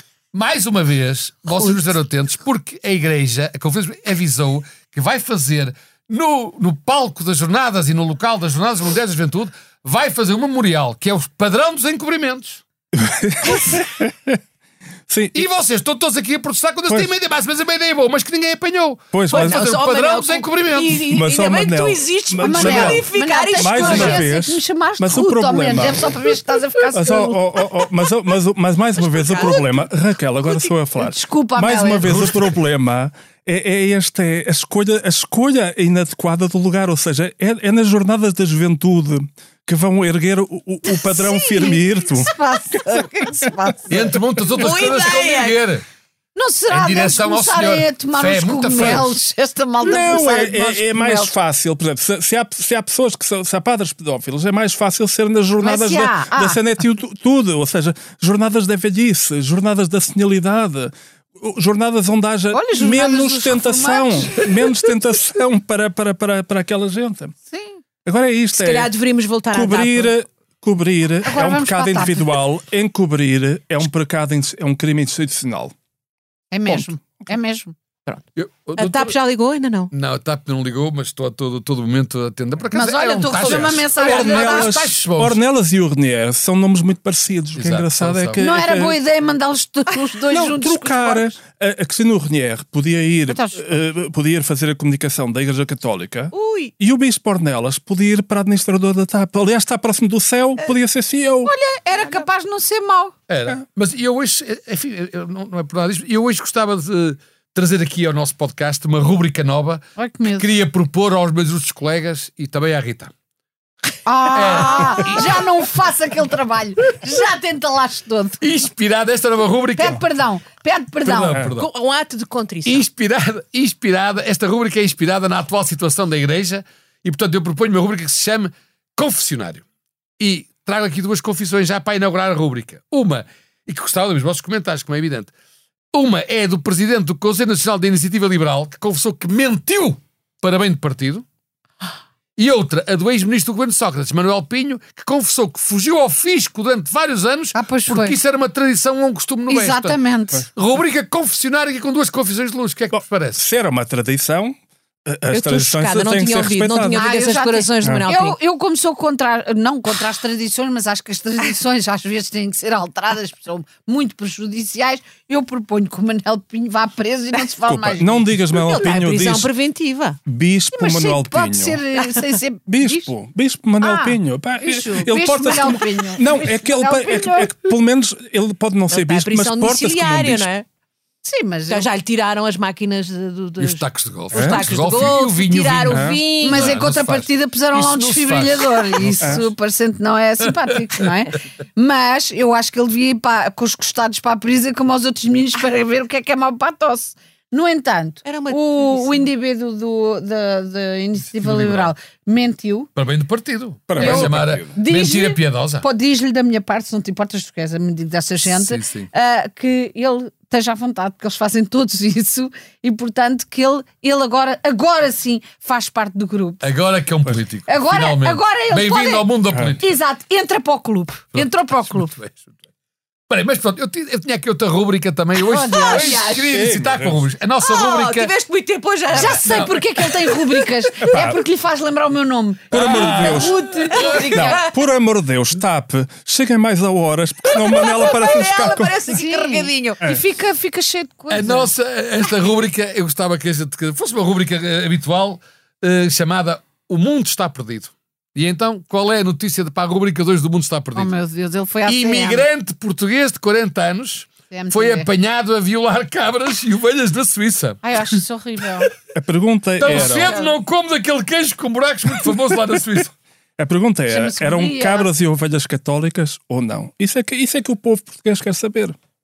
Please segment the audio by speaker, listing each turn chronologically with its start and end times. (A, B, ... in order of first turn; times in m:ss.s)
0:00.3-0:12.6 A
0:12.9-0:14.4 B
0:15.1-0:15.5 B
0:15.3-0:21.1 A
0:19.1-0:19.6 B
0:19.3-0:24.2 C
0:21.0-0:26.1 B
0:22.4-0:27.4 D
0:26.9-0:42.3 B
0:29.0-0:29.9 C
0:31.0-0:32.1 D
0:32.0-0:32.5 A
0:40.9-0:44.1 D
0:43.9-0:45.8 A
0:44.5-0:45.6 C
0:46.4-0:51.3 D
0:46.7-0:49.2 A
0:49.8-1:07.3 B
0:55.6-0:56.6 D
1:02.5-1:04.5 D
1:07.5-1:07.8 D
1:08.0-1:08.9 B
1:08.6-1:10.1 C
1:09.5-1:15.7 B
1:11.2-1:12.3 D
1:16.5-1:17.8 D
1:18.4-1:19.1 A
1:18.8-1:19.9 C
1:19.9-1:25.4 A
1:22.7-1:24.8 D
1:23.5-1:29.0 B
1:27.6-1:28.4 A
1:28.4-1:31.3 D
1:30.3-1:41.5 B
1:33.3-1:33.6 D
1:36.3-1:36.7 C
1:41.4-1:43.1 D
1:43.3-1:53.1 A
1:50.0-1:50.5 D
1:54.1-1:58.4 D
1:54.3-1:55.5 A
1:54.8-1:55.1 C
1:58.4-2:00.0 A
1:59.8-2:01.4 D
2:01.0-2:01.7 A
2:01.6-2:02.9 C
2:02.6-2:09.6 A
2:10.2-2:15.3 A
2:15.9-2:21.2 A
2:22.4-2:30.0 A
2:27.6-2:28.2 D
2:29.5-2:30.5 D
2:30.5-2:33.4 A
2:32.9-2:37.0 B
2:35.3-2:38.4 C
2:36.9-2:48.3 D
2:37.8-2:38.1 B
2:47.7-2:49.5 B
2:48.5-2:50.2 C
2:50.3-2:51.8 B
2:50.7-2:53.1 D
2:52.7-3:00.5 B
2:53.8-2:57.6 D
2:58.9-3:00.6 C
3:01.2-3:01.9 D
3:01.7-3:06.8 C
3:03.6-3:09.4 A
3:04.3-3:04.6 B
3:05.9-3:06.2 B
3:06.4-3:22.9 D
3:18.2-3:19.3 C
3:21.4-3:21.9 A
3:23.0-3:25.8 A
3:23.9-3:24.7 B
3:24.0-3:36.7 D
3:28.5-3:29.1 A
3:36.6-3:39.9 A
3:37.7-3:42.2 D
3:41.3-3:42.5 A
3:43.3-3:48.3 A
3:45.4-3:46.4 D
3:45.8-3:46.6 C
3:46.5-3:47.2 B
3:47.6-3:50.7 C
3:49.1-3:49.8 A
3:49.1-3:54.7 D
3:51.0-3:51.4 B
3:52.7-3:53.6 B
3:52.7-3:54.3 A
3:53.2-3:54.7 C
3:54.3-3:59.0 B
3:57.5-4:00.0 C
3:59.1-4:01.7 D
4:01.3-4:11.1 A
4:11.0-4:12.5 D
4:11.9-4:17.8 A
4:14.5-4:15.1 D
4:17.8-4:18.9 D
4:19.1-4:20.4 B
4:19.8-4:23.1 A
4:20.0-4:20.5 D
4:23.6-4:29.0 B
4:24.1-4:25.1 D